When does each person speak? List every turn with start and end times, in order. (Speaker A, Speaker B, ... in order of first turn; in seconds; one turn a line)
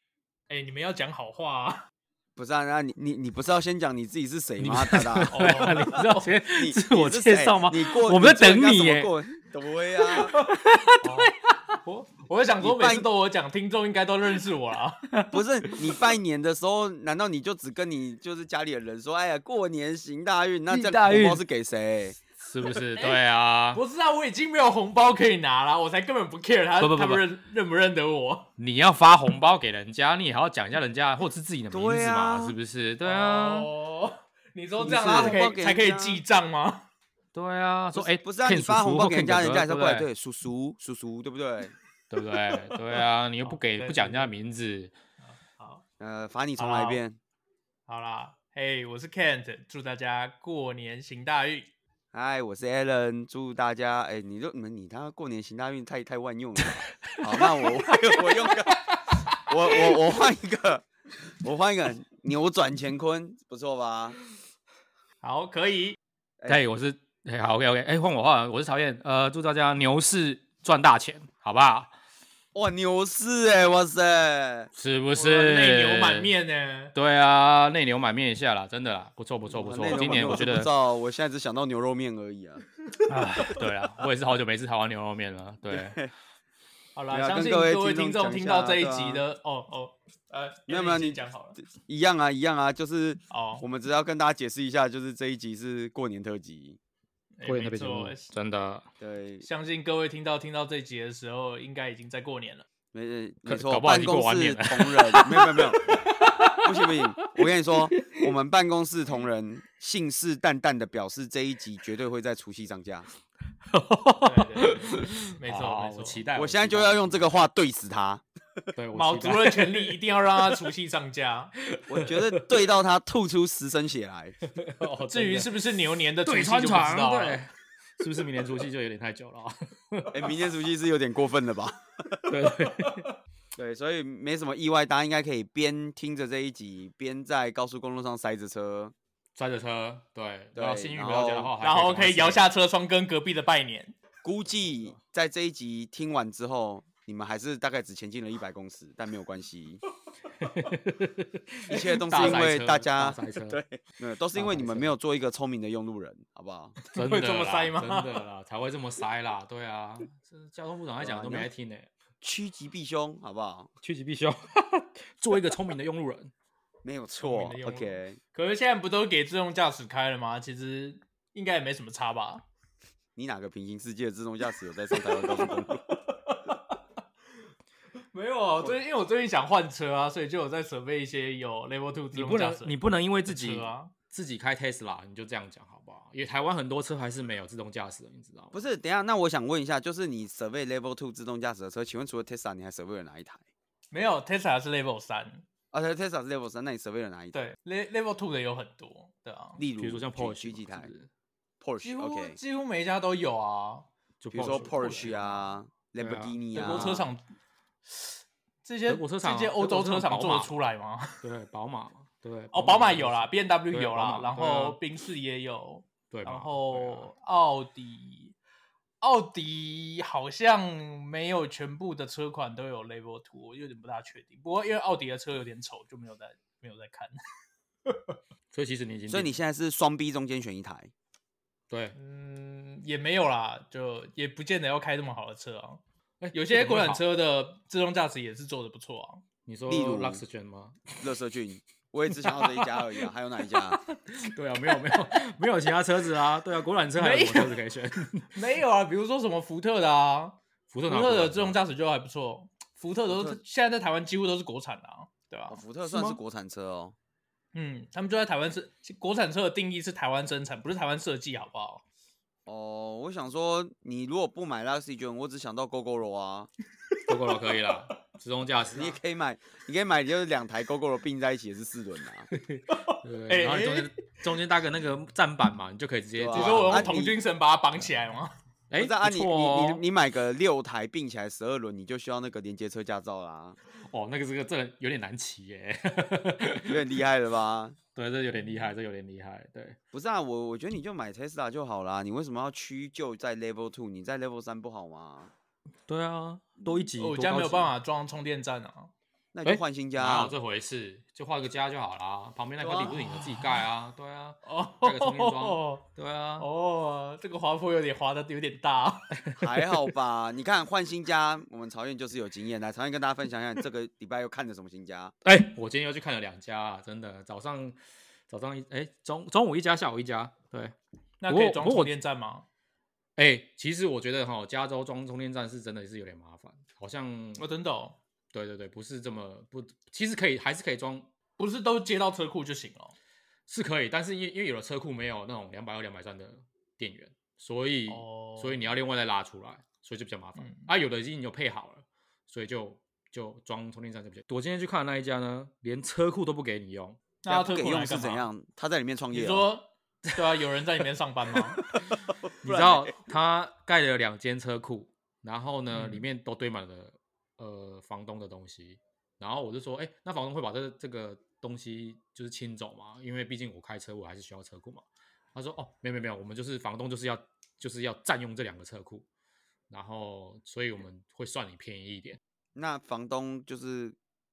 Speaker A: 0.5-1.8
Speaker B: 2.4-10.3
Speaker C: 4.6-9.1
Speaker A: 5.3-6.3
Speaker C: 10.1-11.5
Speaker A: 11.0-15.0
Speaker B: 12.6-13.1
Speaker C: 15.1-16.1
Speaker B: 15.3-22.2
Speaker C: 20.7-21.4
Speaker C: 22.4-23.8
Speaker A: 23.7-28.5
Speaker C: 26.8-27.2
Speaker C: 28.6-33.7
Speaker B: 31.7-32.6
Speaker A: 33.0-36.9
Speaker B: 34.8-36.2
Speaker C: 35.0-35.4
Speaker C: 37.3-40.0
Speaker B: 37.9-41.7
Speaker C: 42.1-44.9
Speaker A: 43.4-44.3
Speaker A: 45.2-45.8
Speaker B: 46.0-47.2
Speaker A: 46.6-47.0
Speaker A: 47.9-51.7
Speaker B: 52.1-64.2
Speaker C: 57.1-58.3
Speaker A: 65.2-66.0
Speaker C: 66.5-71.9
Speaker B: 72.5-74.7
Speaker C: 74.7-76.3
Speaker A: 75.1-76.9
Speaker C: 76.9-80.7
Speaker B: 79.5-82.6
Speaker C: 83.1-86.0
Speaker A: 83.1-83.6
Speaker B: 85.7-86.1
Speaker A: 87.0-91.6
Speaker B: 87.1-89.2
Speaker B: 90.7-96.8
Speaker A: 93.3-93.6
Speaker A: 97.4-98.3
Speaker C: 97.4-98.9
Speaker B: 99.0-99.5
Speaker A: 99.4-102.7
Speaker B: 102.9-106.0
Speaker C: 103.5-108.3
Speaker B: 106.6-113.1
Speaker C: 113.7-117.3
Speaker A: 114.2-116.2
Speaker B: 116.3-118.2
Speaker C: 118.7-119.9
Speaker A: 118.9-121.5
Speaker C: 121.7-122.5
Speaker B: 121.9-124.4
Speaker C: 124.5-125.5
Speaker A: 125.0-127.4
Speaker C: 126.2-130.2
Speaker B: 130.1-132.3
Speaker C: 132.3-133.1
Speaker B: 133.6-138.9
Speaker C: 139.3-142.4
Speaker B: 140.5-141.5
Speaker A: 141.6-143.9
Speaker B: 144.2-149.8
Speaker C: 150.4-153.6
Speaker B: 151.7-156.8
Speaker A: 151.7-152.4
Speaker C: 154.3-154.9
Speaker A: 156.9-158.2
Speaker C: 156.9-161.9
Speaker B: 161.0-161.5
Speaker B: 162.2-163.7
Speaker C: 163.8-166.3
Speaker B: 166.8-168.2
Speaker A: 167.2-172.4
Speaker B: 173.2-175.8
Speaker A: 174.9-176.8
Speaker A: 178.1-182.7
Speaker C: 182.1-188.5
Speaker A: 183.3-183.9
Speaker B: 188.5-193.4
Speaker A: 193.9-195.4
Speaker B: 195.7-197.4
Speaker A: 197.3-199.6
Speaker B: 199.6-200.9
Speaker C: 199.7-201.1
Speaker B: 201.6-202.4
Speaker A: 201.8-203.9
Speaker C: 204.2-205.4
Speaker B: 204.3-207.1
Speaker A: 204.5-205.1
Speaker C: 206.0-207.0
Speaker A: 206.5-207.2
Speaker A: 207.9-211.2
Speaker C: 208.9-210.6
Speaker C: 211.2-214.8
Speaker A: 212.5-218.3
Speaker C: 216.1-217.1
Speaker A: 219.0-227.1
Speaker A: 227.9-228.1
Speaker C: 228.5-229.4
Speaker B: 229.1-230.9
Speaker C: 231.7-231.9
Speaker A: 231.9-235.8
Speaker C: 236.2-237.0
Speaker A: 236.3-239.2
Speaker C: 239.4-241.0
Speaker B: 239.7-240.2
Speaker B: 241.0-243.8
Speaker C: 242.2-242.8
Speaker C: 243.7-248.3
Speaker A: 246.9-247.6
Speaker A: 248.3-256.0
Speaker C: 250.7-251.6
Speaker B: 253.1-253.4
Speaker B: 255.5-256.9
Speaker A: 257.5-261.8
Speaker B: 262.4-266.5
Speaker C: 267.1-269.0
Speaker B: 268.7-272.3
Speaker C: 272.3-276.9
Speaker A: 272.7-273.9
Speaker B: 276.1-277.2
Speaker A: 276.3-278.3
Speaker C: 278.7-279.8
Speaker B: 278.7-283.6
Speaker C: 283.8-286.8
Speaker B: 286.7-287.8
Speaker C: 287.9-289.8
Speaker B: 289.9-295.3
Speaker C: 295.9-297.7
Speaker A: 297.0-298.9
Speaker B: 299.3-300.4
Speaker C: 299.4-306.5
Speaker B: 302.6-303.0
Speaker A: 302.9-303.4
Speaker A: 304.4-305.8
Speaker A: 306.4-309.1
Speaker C: 309.1-309.5
Speaker B: 309.4-315.1
Speaker C: 315.2-317.8
Speaker C: 318.3-320.7
Speaker A: 321.2-322.4
Speaker C: 321.3-321.9
Speaker C: 323.2-327.4
Speaker A: 327.4-328.0
Speaker C: 328.3-331.1
Speaker A: 331.4-332.9
Speaker C: 333.5-347.0
Speaker A: 337.9-338.6
Speaker A: 340.4-340.6
Speaker A: 347.2-348.3
Speaker B: 347.3-349.4
Speaker A: 349.1-351.6
Speaker B: 352.4-352.9
Speaker C: 352.4-369.1
Speaker A: 355.7-356.0
Speaker C: 369.7-372.2
Speaker B: 372.6-373.9